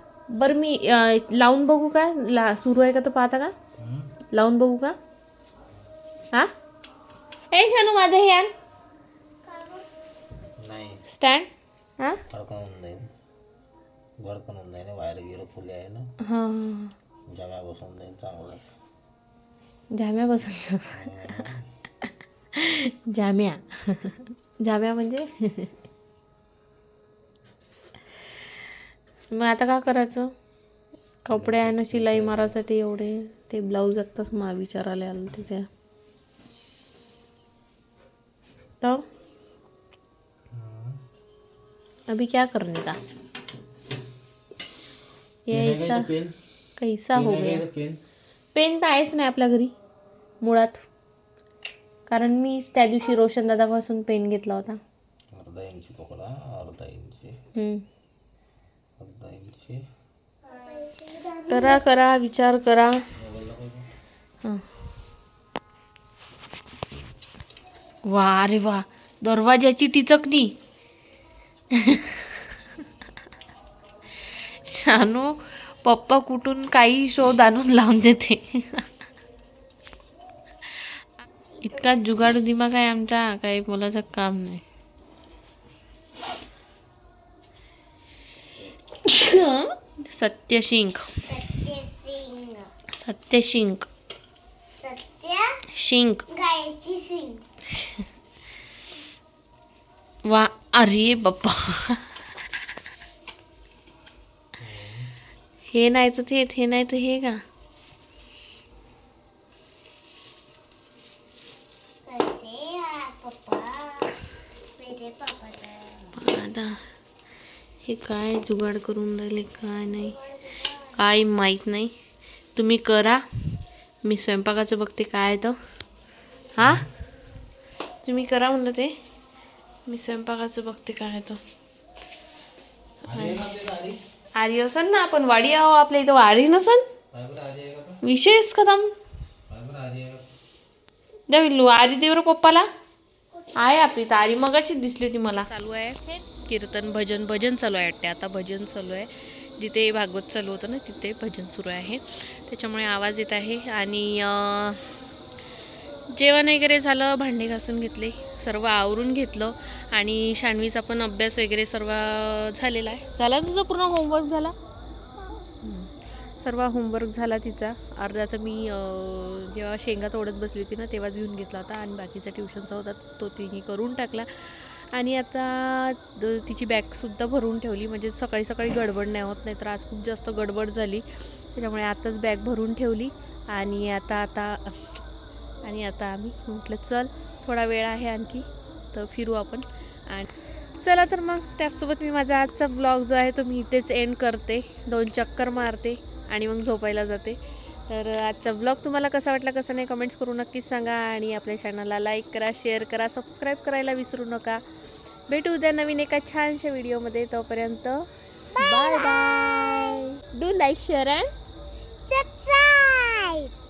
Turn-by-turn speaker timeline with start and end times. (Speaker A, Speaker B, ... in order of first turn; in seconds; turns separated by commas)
Speaker A: 0.3-3.5, Speaker B: 3.8-4.1, Speaker A: 4.3-4.9, Speaker A: 7.5-8.5, Speaker C: 9.5-9.8, Speaker B: 10.6-11.0, Speaker A: 11.1-11.5, Speaker B: 12.3-13.0, Speaker B: 14.2-16.0, Speaker A: 16.3-16.9, Speaker B: 17.3-18.7, Speaker A: 19.9-21.1, Speaker B: 20.9-21.6, Speaker A: 22.6-25.3, Speaker A: 29.3-30.3, Speaker A: 31.3-35.6, Speaker B: 31.3-32.6, Speaker B: 40.5-41.0, Speaker A: 42.1-43.0, Speaker A: 45.5-46.1, Speaker B: 45.5-46.3, Speaker A: 46.8-47.6, Speaker B: 47.1-48.0, Speaker A: 48.5-49.7, Speaker A: 50.4-50.8, Speaker A: 52.1-54.8, Speaker B: 55.3-57.3, Speaker A: 57.6-57.8, Speaker B: 59.0-59.8, Speaker C: 60.5-61.8, Speaker A: 61.5-63.0, Speaker B: 63.2-63.9, Speaker A: 68.1-70.5, Speaker A: 74.8-75.1, Speaker A: 75.9-76.5, Speaker A: 77.0-77.5, Speaker C: 81.6-82.2, Speaker A: 81.7-84.6, Speaker A: 89.1-91.0, Speaker C: 91.2-92.7, Speaker A: 93.0-93.9, Speaker C: 94.8-95.5, Speaker A: 95.8-96.2, Speaker C: 96.3-97.4, Speaker A: 100.3-101.5, Speaker B: 104.6-105.1, Speaker A: 105.8-107.3, Speaker C: 112.1-114.2, Speaker C: 114.8-116.1, Speaker A: 116.2-116.7, Speaker A: 117.9-120.2, Speaker C: 120.0-121.0, Speaker A: 121.0-121.9, Speaker A: 122.6-123.2, Speaker A: 124.1-125.5, Speaker B: 126.6-126.9, Speaker A: 128.0-128.9, Speaker A: 129.9-131.4, Speaker B: 133.1-134.0, Speaker A: 133.1-133.4, Speaker A: 134.4-136.8, Speaker B: 137.1-138.0, Speaker A: 138.0-138.9, Speaker B: 139.5-140.2, Speaker A: 141.3-142.7, Speaker A: 143.6-154.8, Speaker A: 156.1-164.5, Speaker A: 165.6-165.9, Speaker A: 166.4-184.8, Speaker A: 185.6-204.6, Speaker A: 205.3-208.1, Speaker C: 208.5-210.0, Speaker A: 208.6-211.3, Speaker C: 212.1-213.5